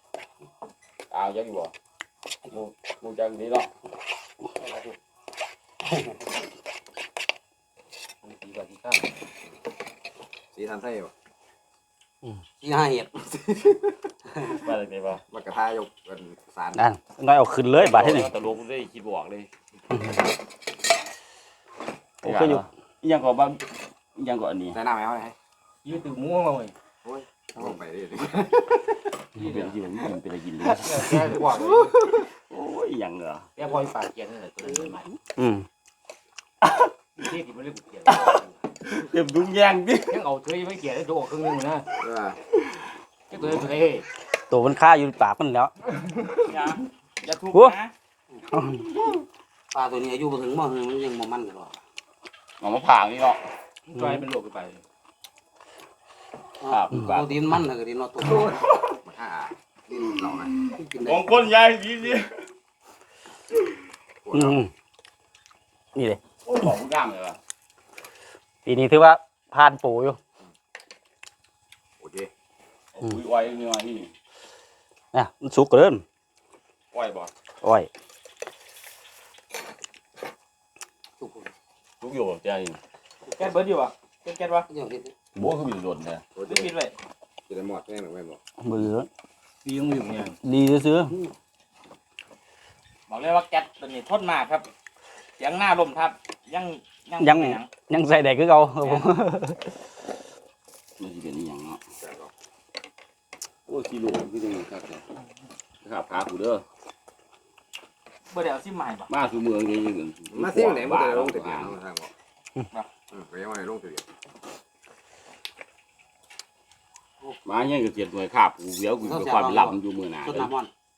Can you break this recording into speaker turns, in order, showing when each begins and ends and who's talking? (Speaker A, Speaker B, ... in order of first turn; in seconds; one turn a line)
Speaker A: 1.1-1.7
Speaker A: 2.5-3.7
Speaker B: 4.6-5.0
Speaker C: 5.9-6.1
Speaker B: 8.2-9.1
Speaker D: 10.5-11.1
Speaker C: 12.6-14.6
Speaker A: 14.5-15.2
Speaker D: 15.3-16.8
Speaker E: 16.7-18.3
Speaker A: 17.8-19.5
Speaker E: 22.2-22.6
Speaker A: 22.2-24.8
Speaker D: 24.7-25.3
Speaker B: 25.8-26.7
Speaker D: 27.0-28.8
Speaker B: 29.4-29.7
Speaker A: 29.4-33.5
Speaker B: 30.8-32.0
Speaker B: 33.6-35.1
Speaker E: 35.4-35.6
Speaker A: 36.6-36.9
Speaker B: 37.2-38.6
Speaker A: 38.0-40.2
Speaker B: 40.1-41.9
Speaker D: 42.0-42.4
Speaker B: 43.3-44.0
Speaker E: 44.5-45.7
Speaker F: 46.5-47.9
Speaker E: 48.5-48.9
Speaker C: 49.7-51.8
Speaker A: 52.6-53.4
Speaker B: 53.9-54.8
Speaker E: 54.0-54.2
Speaker C: 56.6-58.5
Speaker A: 56.6-57.4
Speaker D: 58.2-60.5
Speaker C: 60.7-61.2
Speaker A: 61.0-62.4
Speaker D: 64.2-64.6
Speaker E: 64.3-64.7
Speaker E: 65.9-66.2
Speaker A: 66.4-67.4
Speaker E: 68.6-70.2
Speaker D: 72.0-72.3
Speaker A: 72.9-74.1
Speaker E: 75.1-76.0
Speaker A: 76.9-77.3
Speaker E: 77.6-77.9
Speaker C: 81.2-81.5
Speaker A: 82.0-82.8
Speaker F: 83.3-84.7
Speaker C: 84.7-85.1
Speaker A: 85.3-86.2
Speaker D: 86.3-86.7
Speaker F: 86.5-86.9
Speaker D: 87.5-88.4
Speaker E: 88.6-89.1
Speaker B: 89.6-90.3
Speaker E: 90.4-91.1
Speaker F: 93.1-94.7
Speaker F: 95.4-97.7
Speaker E: 97.2-99.7
Speaker F: 98.8-99.1
Speaker A: 101.0-101.8
Speaker D: 102.0-102.3
Speaker A: 103.7-105.0
Speaker A: 105.8-106.6
Speaker F: 108.3-109.1
Speaker A: 109.1-111.7
Speaker D: 110.3-112.1
Speaker D: 113.1-114.0
Speaker A: 117.4-120.5
Speaker C: 119.0-120.7